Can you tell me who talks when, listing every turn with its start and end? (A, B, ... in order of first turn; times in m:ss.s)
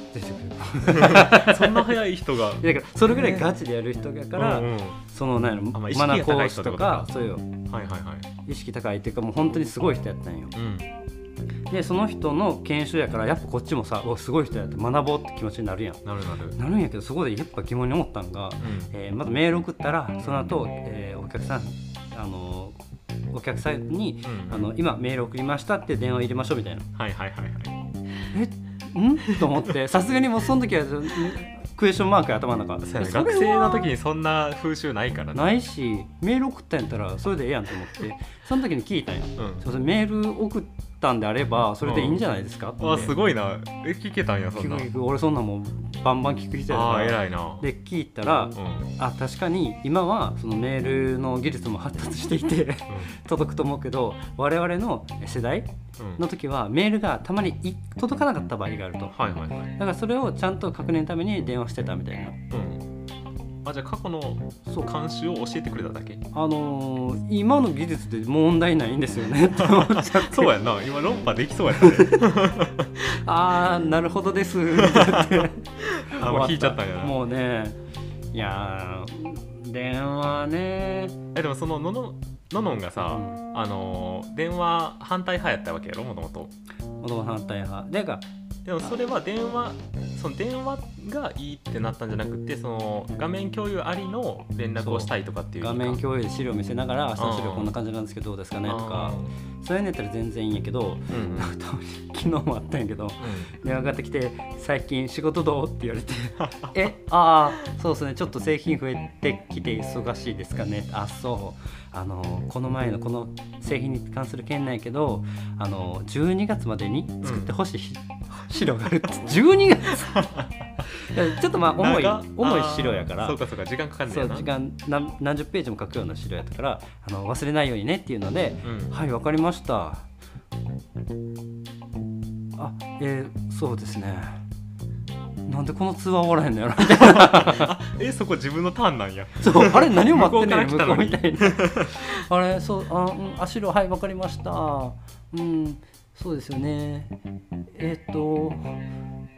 0:00.1-0:02.0 A
0:00.8-0:03.5 B
0:02.6-0:07.5 A
0:04.3-0:05.0 B
0:05.7-0:07.1 B
0:07.7-0:08.3 B
0:08.4-0:10.5 A
0:10.5-0:10.9 B
0:11.7-0:16.0 A
0:16.0-0:16.6 B
0:16.5-0:22.8 A
0:18.6-0:18.9 B
0:20.2-0:20.5 B
0:23.3-0:26.9 A
0:24.2-0:24.7 B
0:26.9-0:27.8 B
0:28.3-0:33.9 A
0:29.4-0:29.6 B
0:32.8-0:35.5 B
0:35.3-0:43.1 A
0:39.4-0:39.6 B
0:41.8-0:42.2 B
0:42.8-0:44.9 B
0:44.6-0:59.2 A
0:46.7-0:47.6 B
0:48.5-0:48.9 B
0:56.0-0:56.2 B
0:59.1-0:59.8 B
0:59.8-1:02.4 A
1:02.5-1:02.9 B
1:03.6-1:06.2 B
1:06.3-1:10.5 A
1:09.6-1:13.0 B
1:11.8-1:12.2 A
1:13.1-1:17.8 A
1:14.7-1:17.2 B
1:18.3-1:21.2 A
1:21.3-1:26.5 B
1:23.1-1:23.4 A
1:27.0-1:28.2 A
1:28.6-1:36.0 B
1:34.8-2:00.3 A
1:37.2-1:37.7 B
1:38.6-1:39.3 B
1:41.1-1:41.5 B
1:43.2-1:43.5 B
1:57.2-1:57.5 B
2:00.0-2:00.5 B
2:00.9-2:03.4 A
2:01.7-2:04.5 B
2:04.1-2:10.0 A
2:08.6-2:08.9 B
2:12.6-2:14.4 A
2:15.4-2:17.7 A
2:16.8-2:22.2 B
2:19.4-2:27.2 A
2:27.7-2:28.8 A